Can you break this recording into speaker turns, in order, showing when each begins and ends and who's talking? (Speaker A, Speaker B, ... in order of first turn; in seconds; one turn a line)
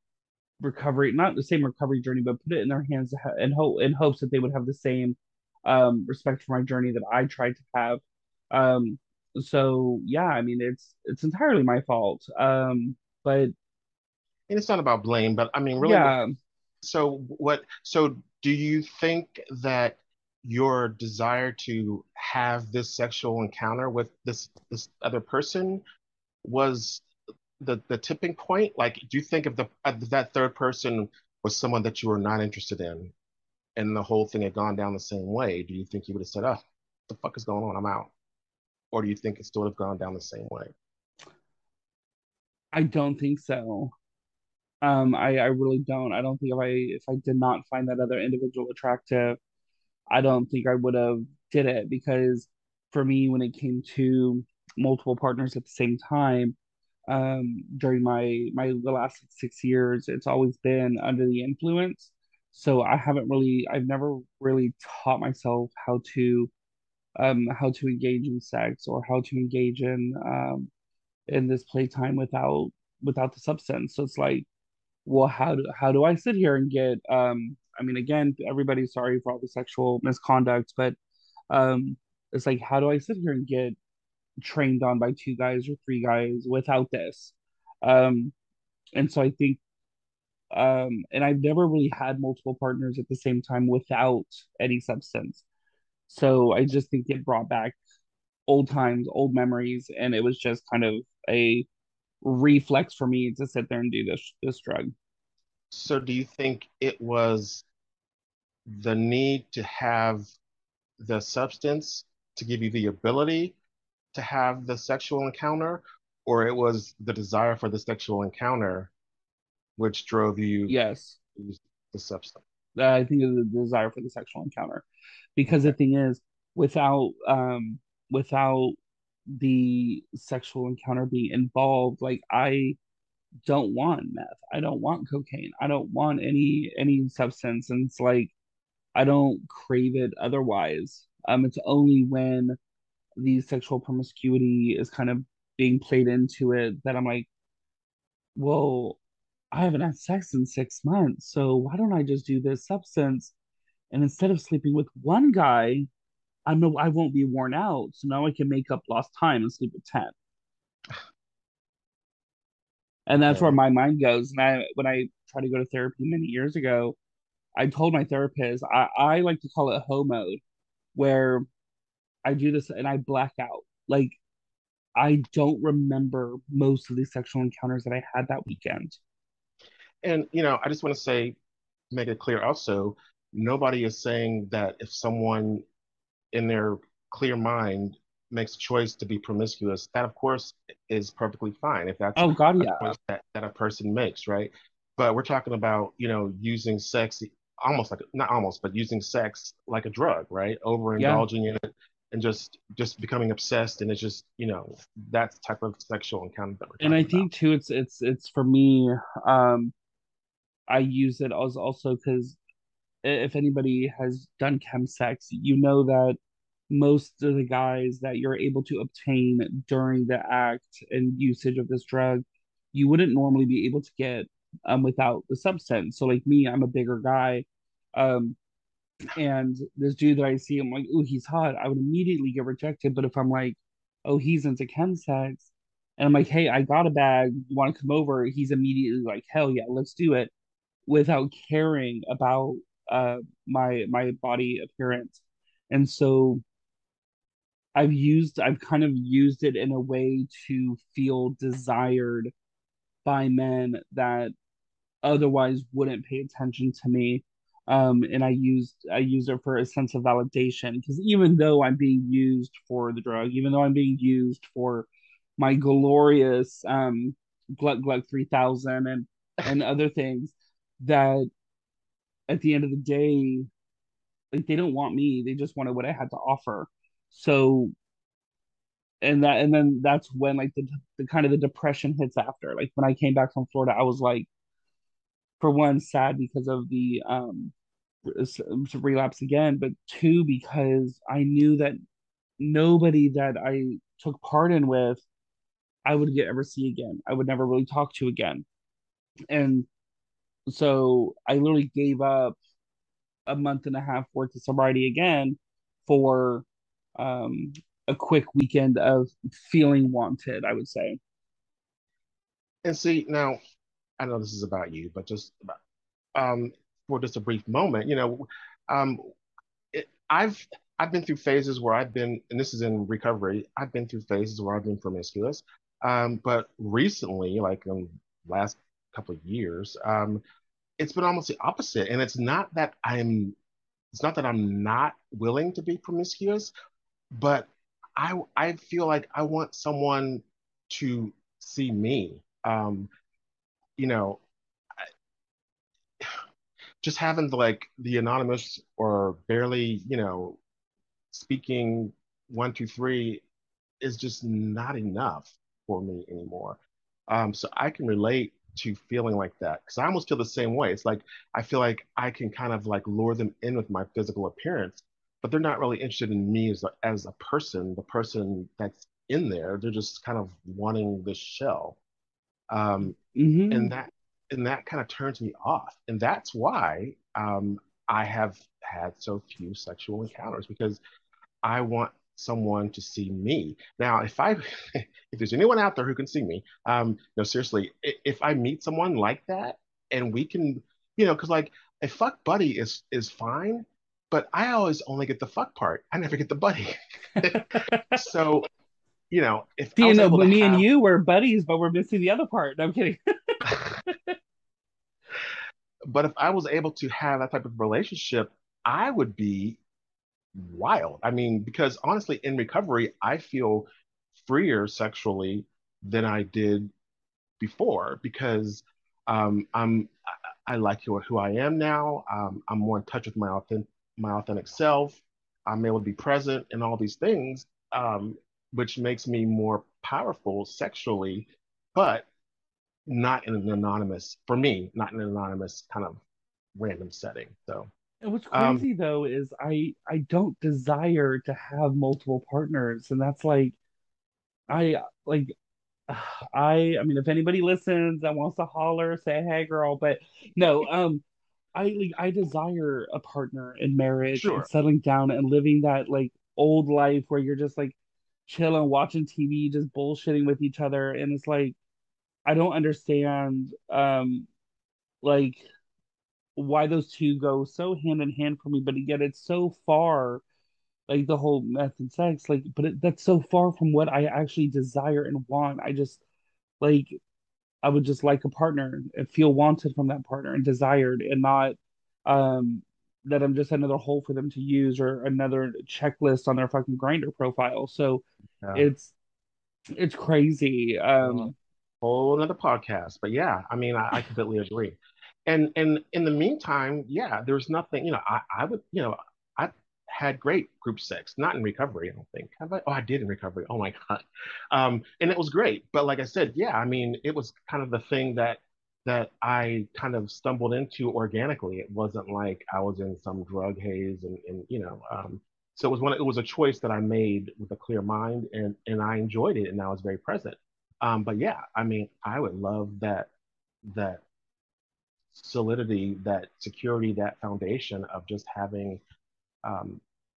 Speaker A: 0.6-13.5
Speaker B: 14.5-16.1
Speaker A: 15.8-16.3
Speaker B: 16.8-25.8
Speaker B: 26.4-27.0
Speaker B: 27.6-33.1
Speaker B: 33.8-38.1
Speaker B: 38.9-40.7
Speaker A: 42.7-43.9
Speaker A: 44.8-49.4
Speaker A: 50.1-56.6
Speaker A: 57.1-66.5
Speaker A: 67.2-70.7
Speaker A: 71.3-74.5
Speaker A: 75.1-81.0
Speaker A: 81.5-83.8
Speaker A: 84.4-88.3
Speaker A: 89.0-89.6
Speaker A: 90.5-95.5
Speaker A: 96.1-97.8
Speaker A: 98.5-101.7
Speaker A: 102.2-104.9
Speaker B: 105.7-107.7
Speaker B: 108.7-110.2
Speaker B: 111.0-113.6
Speaker B: 114.1-118.9
Speaker B: 119.8-120.8
Speaker A: 120.7-121.2
Speaker B: 121.4-122.4
Speaker A: 122.8-124.8
Speaker A: 125.4-128.8
Speaker B: 125.5-125.8
Speaker A: 129.4-132.8
Speaker A: 133.5-138.3
Speaker A: 138.9-142.6
Speaker A: 143.2-147.3
Speaker A: 148.4-149.0
Speaker A: 149.5-153.3
Speaker A: 153.9-155.9
Speaker A: 156.5-160.1
Speaker A: 163.1-167.0
Speaker B: 163.2-163.6
Speaker A: 167.6-170.4
Speaker A: 170.9-171.4
Speaker A: 172.3-174.2
Speaker A: 175.0-179.0
Speaker B: 180.0-181.4
Speaker B: 181.9-185.7
Speaker B: 186.3-207.3
Speaker A: 192.2-192.9
Speaker A: 201.0-201.3
Speaker A: 206.8-209.7
Speaker A: 210.7-212.4
Speaker A: 213.0-216.2
Speaker A: 216.7-228.4
Speaker A: 229.1-240.3
Speaker A: 240.9-246.4
Speaker A: 247.8-252.3
Speaker A: 253.1-254.3
Speaker A: 255.0-271.3
Speaker A: 272.3-273.5
Speaker A: 274.3-277.7
Speaker A: 279.0-284.3
Speaker A: 285.4-287.5
Speaker A: 288.1-291.8
Speaker A: 292.4-295.0
Speaker A: 295.9-298.4
Speaker A: 299.3-299.7
Speaker A: 300.5-302.4
Speaker A: 303.3-306.5
Speaker A: 307.0-311.0
Speaker B: 312.6-313.4
Speaker B: 314.0-315.6
Speaker B: 316.1-319.0
Speaker B: 319.7-330.2
Speaker B: 330.8-333.4
Speaker B: 333.9-336.5
Speaker B: 337.1-342.9
Speaker B: 343.8-344.2
Speaker B: 346.8-350.4
Speaker B: 351.1-353.2
Speaker B: 353.8-356.6
Speaker B: 357.1-371.8
Speaker B: 372.5-373.0
Speaker A: 373.1-373.7
Speaker B: 373.5-380.8
Speaker B: 381.4-398.4
Speaker A: 397.2-398.0
Speaker B: 399.1-400.6
Speaker A: 399.8-404.1
Speaker B: 405.9-409.6
Speaker B: 410.3-416.7
Speaker B: 417.4-419.9
Speaker B: 420.5-432.1
Speaker B: 432.9-436.0
Speaker B: 436.6-437.7
Speaker A: 438.0-443.6
Speaker B: 438.3-438.7
Speaker A: 444.5-445.3
Speaker A: 445.9-451.0
Speaker A: 451.6-461.6
Speaker B: 454.1-454.5
Speaker A: 462.3-464.3
Speaker A: 465.0-465.4
Speaker A: 466.4-470.2
Speaker A: 470.9-476.0
Speaker A: 476.6-477.0
Speaker A: 477.6-488.9
Speaker B: 488.4-488.7
Speaker A: 489.8-491.3
Speaker B: 491.0-491.3
Speaker B: 491.8-523.1
Speaker B: 523.6-524.0
Speaker B: 525.1-528.8
Speaker B: 529.4-529.8